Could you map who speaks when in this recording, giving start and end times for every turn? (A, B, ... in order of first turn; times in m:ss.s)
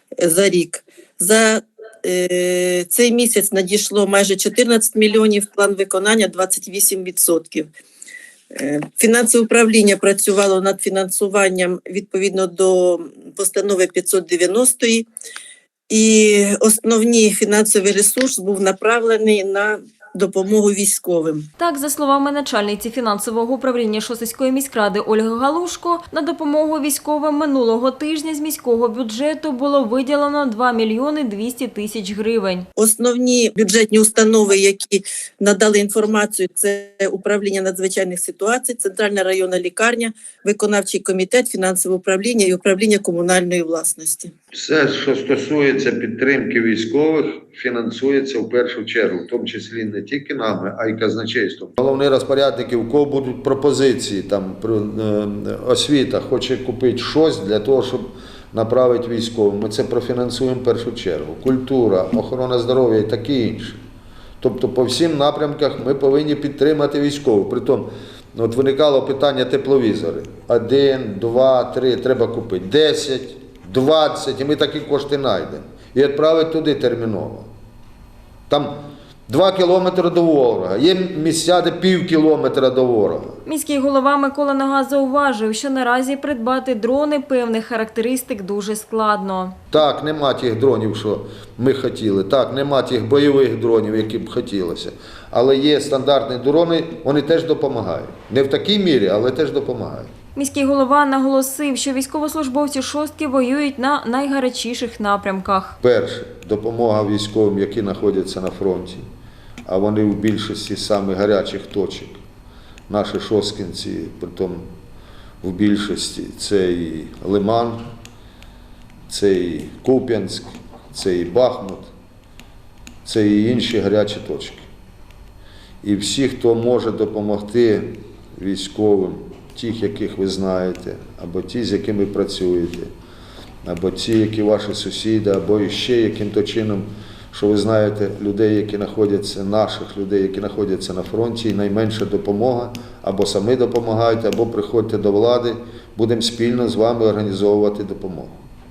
0:00.2-0:07.7 A
0:08.5-0:15.1 A
0:15.9-0:21.5 A
0:21.6-0:32.7 B
0:32.8-0:44.3 A
0:44.5-1:03.8 C
1:04.4-1:17.5 C
1:18.5-1:23.4 C
1:23.4-1:29.6 B
1:29.7-1:40.1 C
1:40.4-1:45.8 B
1:45.8-1:49.0 C
1:49.7-1:52.2 C
1:52.9-1:54.6 C
1:55.4-1:57.8 C
1:59.1-2:01.9 C
2:03.0-2:04.6 C
2:05.8-2:12.9 C
2:13.6-2:28.4 C